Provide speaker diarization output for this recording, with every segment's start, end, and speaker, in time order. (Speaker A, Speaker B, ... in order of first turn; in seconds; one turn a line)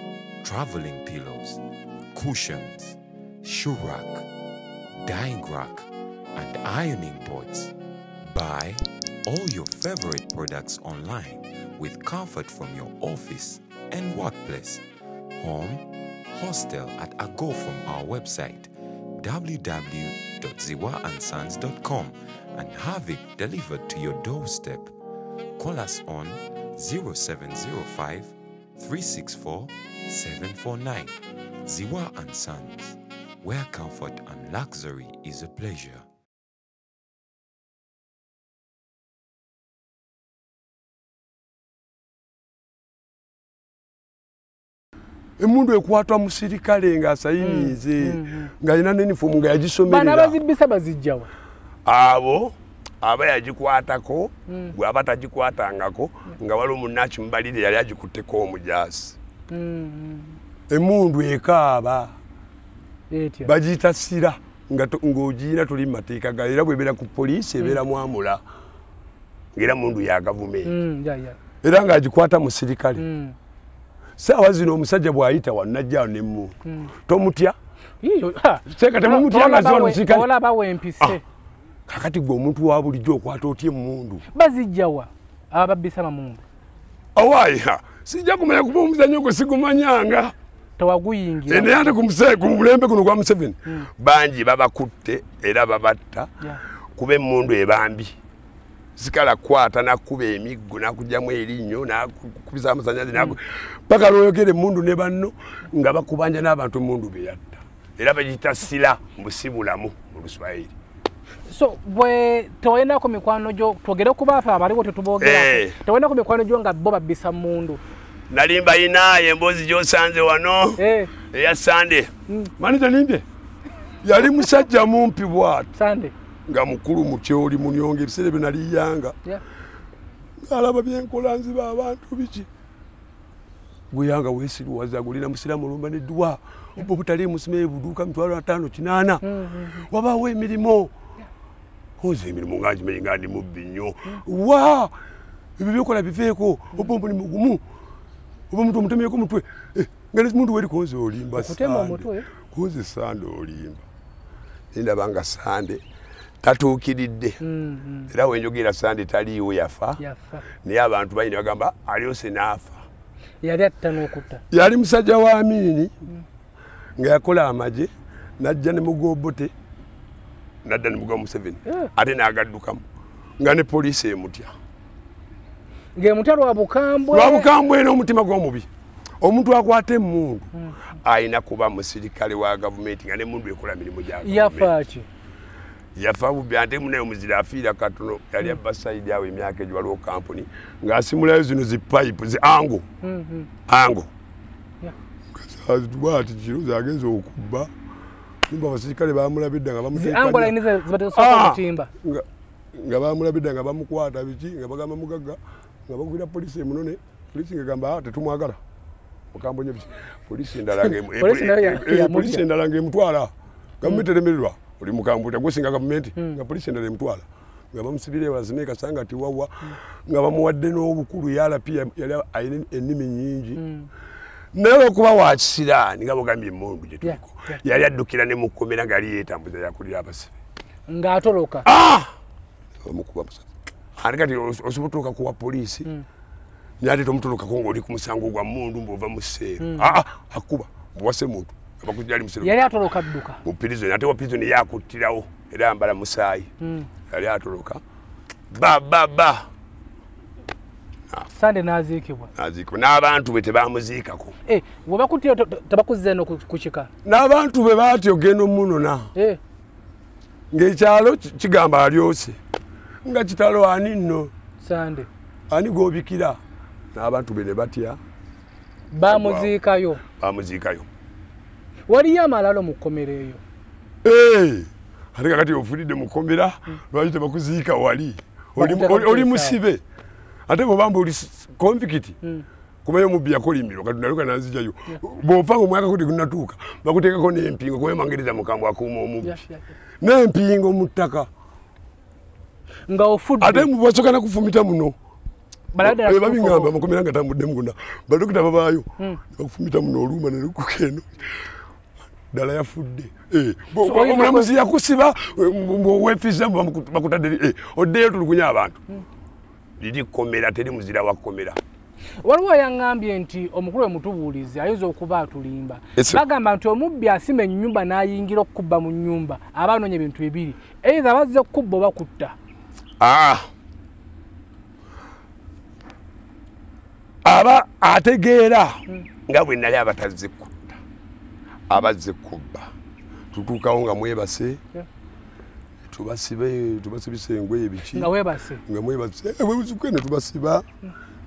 Speaker A: 0.4-1.6
Speaker A: 2.1-4.2
Speaker A: 5.0-7.7
Speaker A: 8.2-14.8
Speaker A: 15.4-15.8
Speaker A: 16.3-18.7
Speaker A: 19.2-24.9
Speaker A: 25.6-36.0
Speaker B: 45.4-50.4
Speaker C: 47.4-48.5
Speaker C: 49.9-51.3
Speaker B: 51.8-59.2
Speaker C: 54.5-54.7
Speaker C: 59.5-60.4
Speaker B: 60.7-62.1
Speaker C: 63.1-63.5
Speaker B: 63.4-68.4
Speaker B: 69.5-70.7
Speaker C: 70.6-71.4
Speaker B: 71.6-73.0
Speaker C: 73.0-73.3
Speaker B: 74.2-77.6
Speaker C: 76.6-76.9
Speaker C: 78.0-81.2
Speaker B: 78.7-80.3
Speaker B: 81.9-84.2
Speaker C: 84.3-86.4
Speaker B: 87.1-90.3
Speaker C: 90.8-91.9
Speaker B: 91.5-96.3
Speaker B: 97.0-98.1
Speaker B: 99.0-110.7
Speaker C: 111.5-117.8
Speaker B: 115.2-115.8
Speaker B: 118.3-123.2
Speaker C: 120.8-121.1
Speaker B: 124.0-125.7
Speaker C: 125.7-126.1
Speaker B: 126.5-129.2
Speaker B: 130.4-132.5
Speaker B: 133.9-139.2
Speaker C: 139.2-139.8
Speaker B: 139.9-140.9
Speaker B: 142.0-144.9
Speaker B: 145.6-147.6
Speaker B: 148.5-153.8
Speaker C: 151.3-152.3
Speaker B: 154.7-155.8
Speaker B: 156.4-157.4
Speaker C: 157.4-158.1
Speaker B: 158.1-160.0
Speaker C: 160.0-160.4
Speaker B: 160.6-162.8
Speaker C: 163.4-164.4
Speaker B: 164.5-165.9
Speaker B: 167.0-169.5
Speaker B: 170.6-172.8
Speaker B: 173.4-174.5
Speaker C: 175.9-177.5
Speaker B: 177.1-178.7
Speaker B: 179.2-180.5
Speaker B: 181.0-184.7
Speaker C: 184.2-185.1
Speaker B: 185.9-192.8
Speaker C: 193.0-193.5
Speaker B: 193.7-194.1
Speaker B: 195.3-197.7
Speaker B: 198.5-200.6
Speaker C: 199.9-201.9
Speaker B: 201.1-208.6
Speaker B: 209.3-223.6
Speaker C: 211.0-212.4
Speaker C: 223.6-223.9
Speaker B: 224.5-230.3
Speaker C: 227.0-227.6
Speaker C: 230.9-231.7
Speaker B: 231.6-232.1
Speaker B: 232.8-235.9
Speaker B: 236.8-242.6
Speaker C: 239.6-239.9
Speaker C: 242.4-243.4
Speaker B: 243.4-246.5
Speaker C: 246.6-246.9
Speaker B: 247.1-247.8
Speaker B: 248.5-249.5
Speaker C: 251.3-252.3
Speaker B: 252.3-254.3
Speaker C: 254.5-256.9
Speaker B: 257.0-259.1
Speaker B: 260.5-262.4
Speaker B: 263.0-264.3
Speaker C: 264.6-265.1
Speaker B: 265.5-266.4
Speaker B: 266.9-268.0
Speaker C: 268.9-270.0
Speaker B: 269.0-269.5
Speaker B: 270.1-270.9
Speaker C: 271.9-273.4
Speaker B: 274.0-279.8
Speaker C: 278.6-279.6
Speaker B: 280.5-282.2
Speaker B: 282.8-289.4
Speaker C: 289.2-289.6
Speaker B: 290.0-291.3
Speaker C: 292.9-293.7
Speaker B: 293.4-294.9
Speaker C: 295.7-296.7
Speaker B: 295.8-301.2
Speaker B: 302.3-308.8
Speaker C: 303.8-304.5
Speaker B: 309.8-311.6
Speaker C: 312.2-322.3
Speaker B: 315.9-316.2
Speaker B: 323.0-323.5
Speaker B: 327.2-330.8
Speaker B: 331.7-332.7
Speaker B: 333.3-334.6
Speaker B: 335.9-338.1
Speaker C: 337.9-338.6
Speaker B: 338.6-340.6